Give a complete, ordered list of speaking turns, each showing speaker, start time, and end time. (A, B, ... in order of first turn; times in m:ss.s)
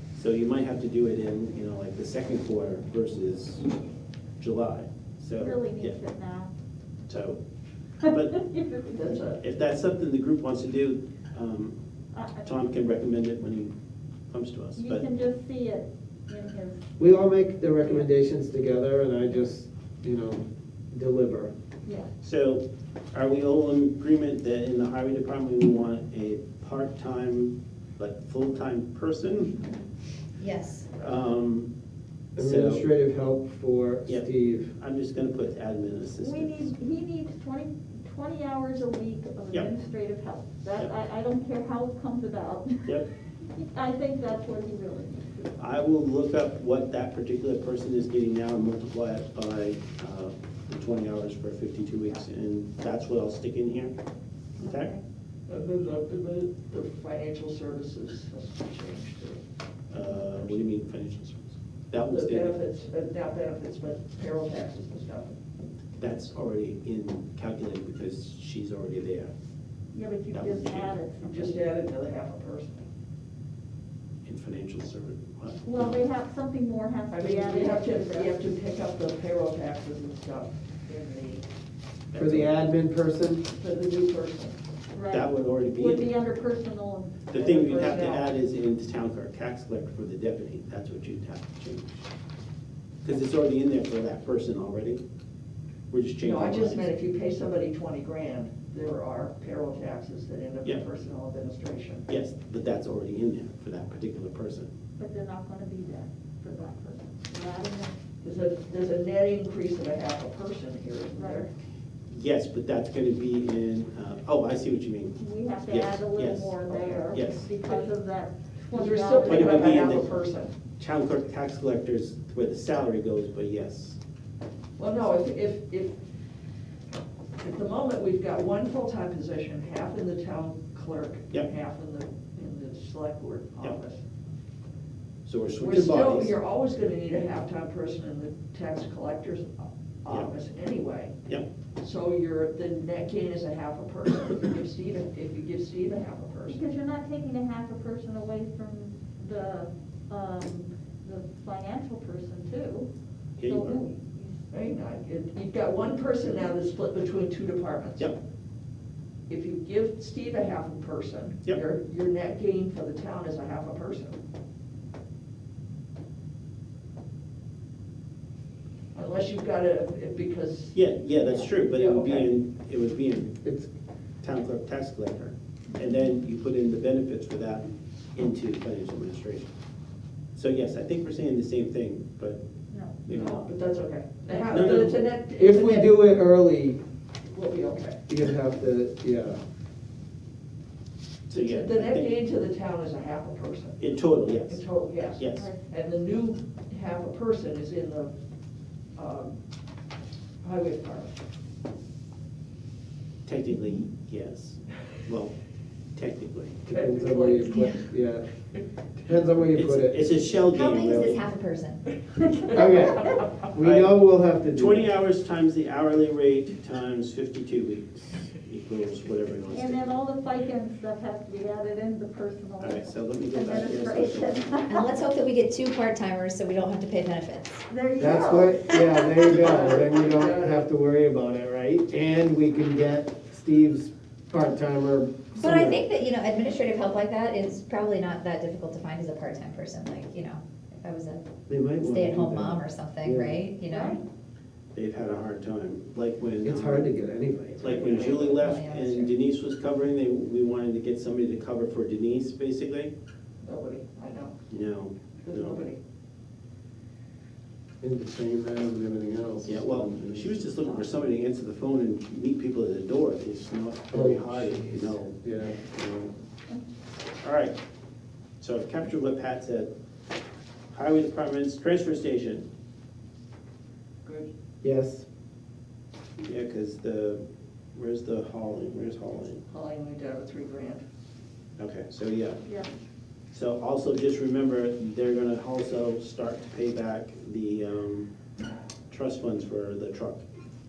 0:00.1-0:03.7 A
0:04.4-0:06.0 A
0:05.4-0:06.5 B
0:07.1-0:07.4 A
0:08.0-0:09.1 B
0:08.0-0:08.3 A
0:08.9-0:09.4 C
0:09.4-0:11.8 A
0:12.1-0:12.5 B
0:12.4-0:13.7 A
0:14.3-0:15.0 A
0:14.8-0:16.8 B
0:17.0-0:21.5 D
0:21.8-0:22.1 B
0:22.2-0:29.6 A
0:30.4-0:30.9 E
0:31.0-0:31.7 A
0:32.4-0:34.7 D
0:32.4-0:32.9 A
0:34.0-0:36.7 A
0:36.2-0:43.0 B
0:43.6-0:45.5 B
0:45.6-0:53.9 A
0:54.6-0:54.9 A
0:54.6-0:55.0 B
0:55.5-0:59.4 C
0:59.9-1:02.6 A
1:02.1-1:05.4 C
1:06.0-1:09.3 A
1:09.9-1:11.6 B
1:10.3-1:11.0 A
1:11.2-1:12.9 C
1:14.2-1:16.0 A
1:15.6-1:18.4 B
1:17.1-1:21.4 C
1:22.1-1:22.5 A
1:22.1-1:23.4 D
1:23.5-1:24.6 C
1:24.9-1:27.3 B
1:25.1-1:26.1 A
1:27.3-1:32.1 A
1:27.3-1:28.3 C
1:33.0-1:35.0 A
1:35.9-1:36.9 A
1:36.2-1:42.1 C
1:42.1-1:44.7 A
1:45.0-1:47.9 B
1:48.2-1:51.4 C
1:51.2-1:51.5 B
1:52.1-1:56.6 A
1:55.2-1:59.8 B
1:56.7-1:57.1 C
1:57.1-1:57.5 A
1:58.7-2:00.5 C
1:59.2-2:00.1 A
2:00.8-2:04.0 A
2:04.8-2:05.9 C
2:07.4-2:14.0 C
2:15.2-2:16.4 A
2:15.6-2:21.2 C
2:20.1-2:20.3 A
2:21.8-2:26.6 C
2:26.5-2:32.9 B
2:33.4-2:33.8 A
2:33.4-2:34.4 B
2:34.5-2:38.1 C
2:39.3-2:44.2 C
2:48.9-2:52.3 C
2:50.7-2:53.4 A
2:53.4-2:53.7 D
2:54.2-2:59.5 A
2:55.7-2:56.0 B
3:00.3-3:02.4 A
3:02.7-3:03.0 B
3:03.0-3:03.5 A
3:03.1-3:06.0 C
3:04.4-3:05.0 A
3:05.4-3:06.8 D
3:07.2-3:08.0 C
3:08.1-3:09.4 D
3:11.3-3:12.1 A
3:11.3-3:13.9 C
3:13.8-3:14.6 A
3:14.5-3:18.1 C
3:15.2-3:15.5 A
3:15.4-3:15.6 B
3:19.0-3:19.4 C
3:20.4-3:21.1 C
3:23.2-3:25.3 A
3:25.9-3:26.6 A
3:26.6-3:28.3 D
3:26.7-3:27.9 C
3:29.0-3:30.1 D
3:29.5-3:31.2 A
3:30.4-3:31.9 E
3:32.5-3:34.9 D
3:33.6-3:34.0 A
3:34.5-3:39.9 A
3:39.5-3:44.9 B
3:42.6-3:44.5 A
3:44.7-3:47.6 E
3:47.7-3:49.3 B
3:48.0-3:55.8 D
3:49.3-3:50.6 C
3:55.4-4:01.3 E
4:01.5-4:03.4 D
4:01.8-4:02.4 A
4:01.8-4:04.0 E
4:03.7-4:04.0 B
4:04.7-4:06.9 A
4:06.4-4:07.8 D
4:07.6-4:12.9 A
4:07.7-4:09.1 E
4:07.8-4:08.4 C
4:13.4-4:14.4 C
4:14.5-4:15.6 A
4:15.2-4:15.8 C
4:17.8-4:20.4 D
4:19.4-4:26.1 A
4:23.9-4:25.6 D
4:27.2-4:27.6 A
4:28.4-4:29.7 A
4:30.7-4:32.4 A
4:34.0-4:34.3 C
4:34.6-4:35.0 D
4:36.2-4:39.4 A
4:39.5-4:40.8 C
4:41.6-4:42.4 A
4:42.4-4:42.7 B
4:43.3-4:48.1 A
4:48.9-4:50.2 A